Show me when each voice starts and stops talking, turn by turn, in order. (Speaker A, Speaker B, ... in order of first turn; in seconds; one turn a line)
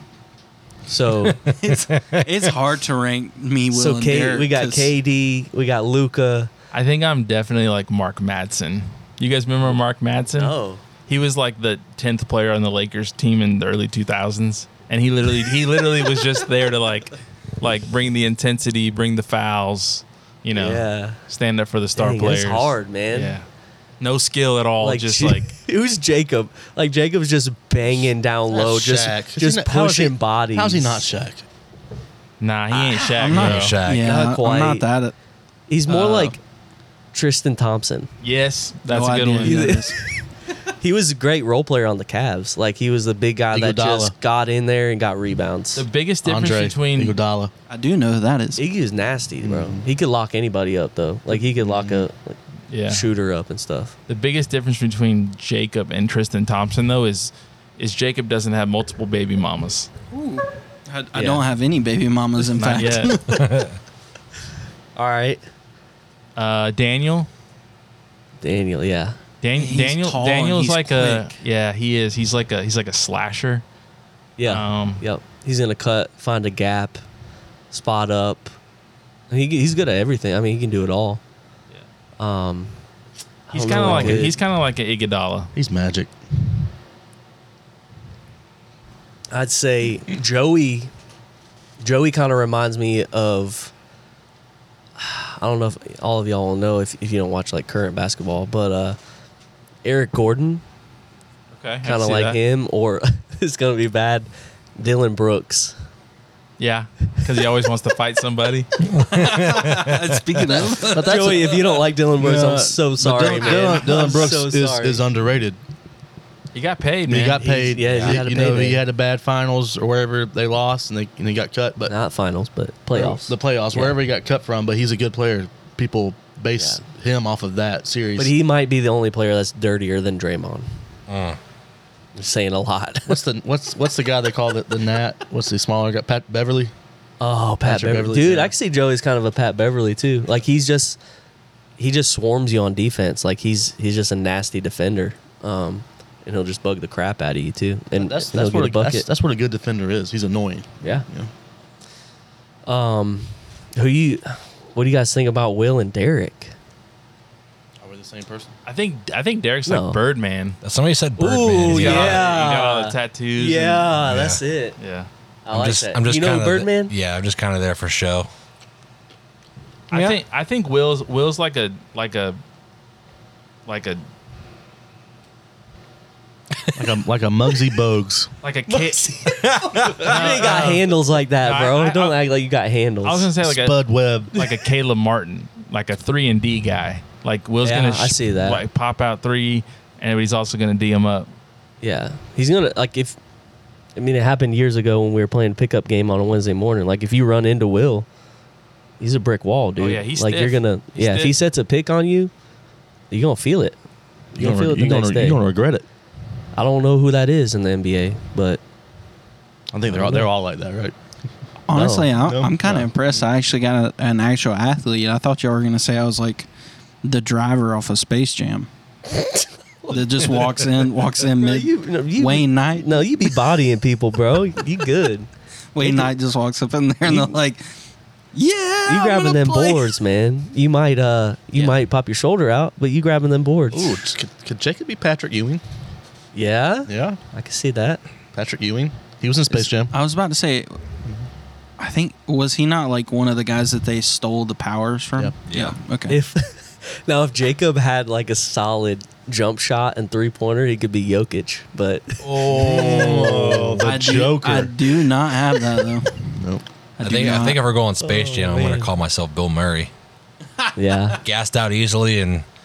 Speaker A: 0.9-1.4
Speaker B: 1.4-4.9
Speaker C: 1.7-2.4
Speaker A: 3.7-6.5
Speaker D: 6.7-10.5
Speaker A: 10.3-10.8
Speaker D: 11.1-23.4
Speaker A: 20.5-21.2
Speaker A: 21.9-23.4
Speaker D: 24.0-25.5
Speaker A: 24.8-31.1
Speaker E: 28.5-31.4
Speaker D: 32.4-33.8
Speaker A: 32.7-33.0
Speaker B: 33.0-35.1
Speaker C: 33.3-34.1
Speaker A: 34.0-34.8
Speaker A: 35.7-36.4
Speaker B: 35.9-36.3
Speaker A: 37.1-38.1
Speaker D: 38.2-39.7
Speaker B: 38.9-40.0
Speaker A: 39.4-40.2
Speaker A: 40.8-45.8
Speaker E: 43.5-44.1
Speaker D: 45.8-47.2
Speaker E: 46.2-47.5
Speaker B: 47.7-48.6
Speaker A: 48.5-54.0
Speaker E: 49.4-49.9
Speaker E: 51.4-52.1
Speaker D: 52.7-53.0
Speaker D: 54.1-59.9
Speaker B: 60.1-63.5
Speaker A: 61.1-61.4
Speaker D: 62.6-63.2
Speaker C: 63.3-63.8
Speaker A: 65.0-65.4
Speaker D: 66.3-67.3
Speaker A: 68.4-69.2
Speaker D: 69.4-73.6
Speaker B: 69.5-71.4
Speaker A: 74.4-77.0
Speaker D: 74.5-75.0
Speaker A: 77.7-78.5
Speaker A: 79.3-81.2
Speaker A: 82.2-82.7
Speaker A: 83.5-84.4
Speaker D: 83.5-85.5
Speaker E: 83.9-84.2
Speaker E: 85.5-86.5
Speaker A: 89.3-90.9
Speaker A: 91.8-93.7
Speaker A: 95.0-99.0
Speaker A: 99.8-100.6
Speaker D: 101.5-102.4
Speaker A: 101.8-105.7
Speaker D: 106.6-108.7
Speaker C: 108.8-110.7
Speaker B: 109.0-111.3
Speaker E: 110.9-111.6
Speaker A: 110.9-115.0
Speaker E: 112.2-115.6
Speaker D: 113.4-113.8
Speaker D: 116.5-117.4
Speaker E: 117.1-121.9
Speaker A: 117.4-118.8
Speaker C: 117.9-118.2
Speaker A: 121.9-124.0
Speaker E: 122.9-128.3
Speaker A: 126.5-126.8
Speaker A: 128.2-130.7
Speaker C: 131.1-131.4
Speaker A: 132.1-133.2
Speaker E: 133.1-136.7
Speaker A: 137.2-141.0
Speaker E: 137.7-138.5
Speaker A: 141.8-149.1
Speaker E: 147.9-151.3
Speaker A: 152.7-156.5
Speaker E: 157.8-158.5
Speaker D: 158.7-160.6
Speaker A: 159.7-160.0
Speaker C: 160.6-162.3
Speaker A: 161.2-164.8
Speaker D: 161.7-163.9
Speaker C: 163.9-164.4
Speaker D: 164.8-165.1
Speaker A: 165.4-166.9
Speaker C: 165.5-168.3
Speaker C: 169.9-170.2
Speaker D: 169.9-172.4
Speaker D: 173.7-174.0
Speaker E: 176.7-178.3
Speaker D: 178.4-179.5
Speaker A: 178.7-183.3
Speaker C: 179.6-180.0
Speaker D: 180.0-180.9
Speaker D: 181.4-182.2
Speaker D: 183.0-183.8
Speaker E: 183.4-184.4
Speaker D: 184.3-191.3
Speaker A: 187.6-188.6
Speaker A: 191.8-193.2
Speaker A: 193.9-198.1
Speaker A: 199.0-202.3
Speaker D: 199.8-201.3
Speaker A: 203.1-203.8
Speaker A: 204.3-205.4
Speaker E: 204.4-205.8
Speaker A: 206.5-208.6
Speaker E: 209.7-210.9
Speaker A: 209.9-210.3
Speaker B: 211.7-216.5
Speaker A: 211.7-212.1
Speaker E: 212.2-212.9
Speaker B: 217.0-218.7
Speaker B: 219.9-223.4
Speaker A: 221.3-225.3
Speaker B: 225.7-227.7
Speaker A: 225.8-226.1
Speaker A: 227.0-227.3
Speaker B: 228.3-229.9
Speaker A: 228.8-233.9
Speaker E: 233.7-235.6
Speaker A: 236.3-238.0
Speaker E: 236.9-237.2
Speaker E: 238.3-239.9
Speaker B: 239.9-240.8
Speaker B: 241.8-246.2
Speaker C: 245.5-245.8
Speaker A: 246.1-253.8
Speaker E: 252.2-254.8
Speaker C: 252.5-253.6
Speaker B: 253.8-256.4
Speaker B: 257.0-257.6
Speaker C: 257.0-259.9
Speaker A: 258.0-258.9
Speaker A: 260.8-261.2
Speaker C: 261.2-262.4